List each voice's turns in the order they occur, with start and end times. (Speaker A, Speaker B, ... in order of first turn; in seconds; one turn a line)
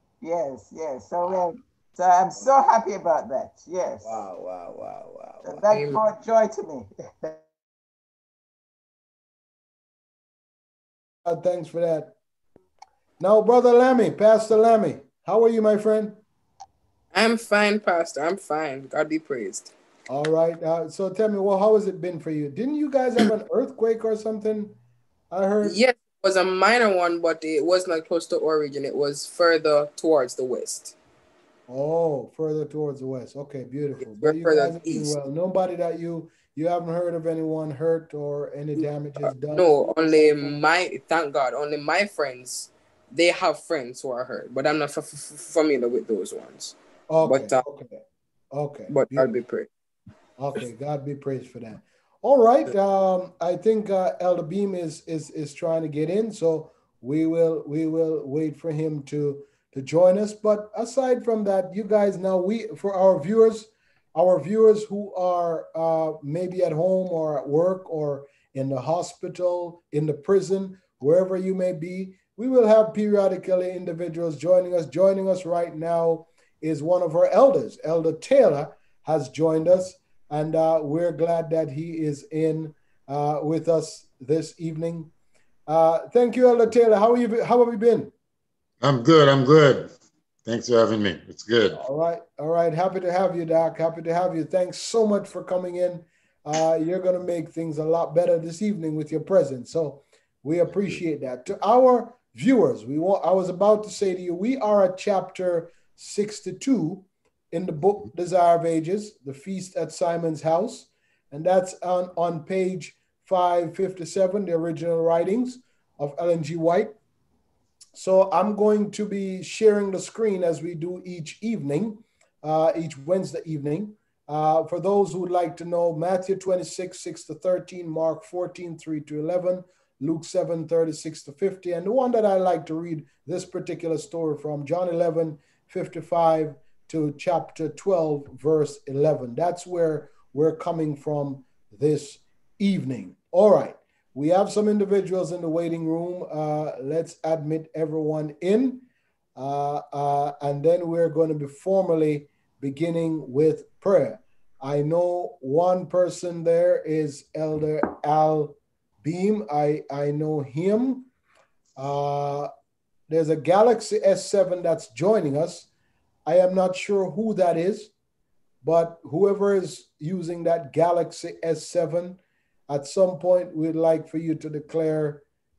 Speaker A: 0.2-4.2
Speaker B: 4.0-5.7
Speaker A: 5.4-7.4
Speaker C: 5.7-6.0
Speaker B: 11.2-12.1
Speaker B: 13.2-16.2
Speaker C: 17.1-19.7
Speaker B: 20.1-24.8
Speaker B: 25.3-25.8
Speaker C: 25.6-30.9
Speaker B: 31.7-40.7
Speaker C: 34.0-35.2
Speaker C: 38.8-47.6
Speaker B: 47.1-48.0
Speaker B: 48.5-49.3
Speaker C: 48.9-49.7
Speaker B: 50.4-85.1
Speaker B: 85.7-88.1
Speaker D: 88.8-89.9
Speaker D: 90.5-91.8
Speaker B: 91.8-117.0
Speaker B: 118.0-148.8
Speaker B: 149.4-161.1
Speaker B: 161.8-162.5
Speaker B: 163.1-165.7
Speaker B: 166.3-167.9
Speaker B: 168.6-175.2